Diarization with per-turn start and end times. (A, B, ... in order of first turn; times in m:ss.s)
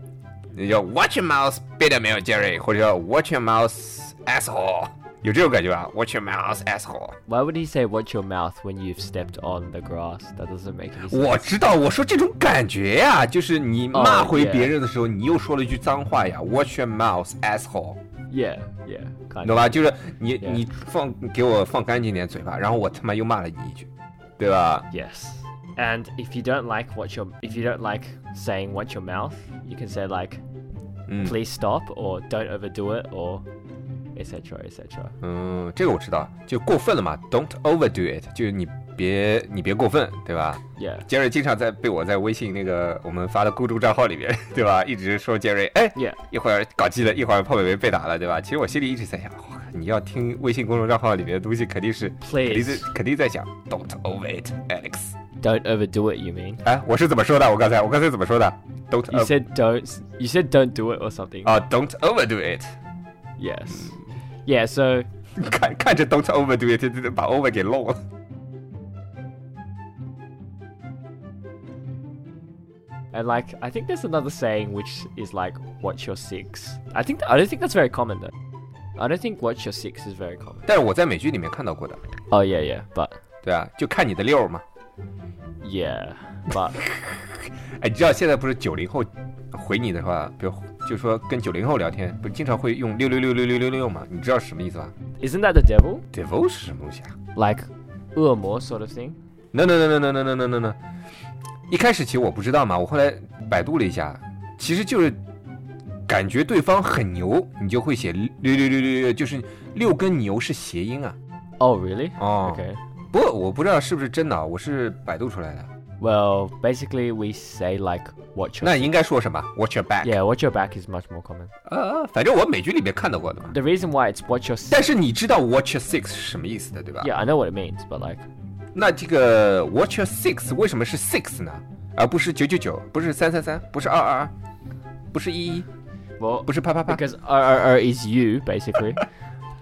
0:00.5-0:07.2 A
0:07.3-0:11.5 B
0:11.1-0:18.0 A
0:13.9-0:14.7 B
0:18.3-0:19.7 B
0:19.4-0:23.9 A
0:24.4-0:24.9 A
0:24.9-0:30.4 B
0:31.1-0:31.3 A
0:31.2-0:33.4 B
0:34.1-0:35.1 B
0:35.2-0:55.1 A
0:40.8-0:41.0 B
0:52.2-0:52.9 B
0:55.4-0:56.6 B
0:56.6-0:59.3 A
0:59.1-1:01.5 B
1:01.4-1:02.7 A
1:03.4-1:05.1 B
1:05.4-1:08.0 A
1:13.1-1:18.3 B
1:19.0-1:20.6 B
1:20.6-1:22.0 A
1:22.3-1:23.2 B
1:23.4-1:24.6 A
1:25.6-1:26.8 B
1:26.9-1:34.9 A
1:35.2-1:36.0 B
1:36.1-1:37.1 A
1:37.3-1:39.2 B
1:39.5-1:40.8 A
1:41.7-1:45.2 A
1:46.1-1:51.2 A
1:51.6-1:52.8 B
1:52.2-1:55.7 A
1:56.0-1:58.9 B
1:58.6-2:00.1 A
2:00.0-2:01.5 B
2:01.6-2:03.5 A
2:03.5-2:04.8 B
2:04.7-2:07.1 A
2:07.0-2:08.2 B
2:08.7-2:14.3 A
2:15.1-2:15.7 A
2:16.2-2:19.0 B
2:16.4-2:17.0 A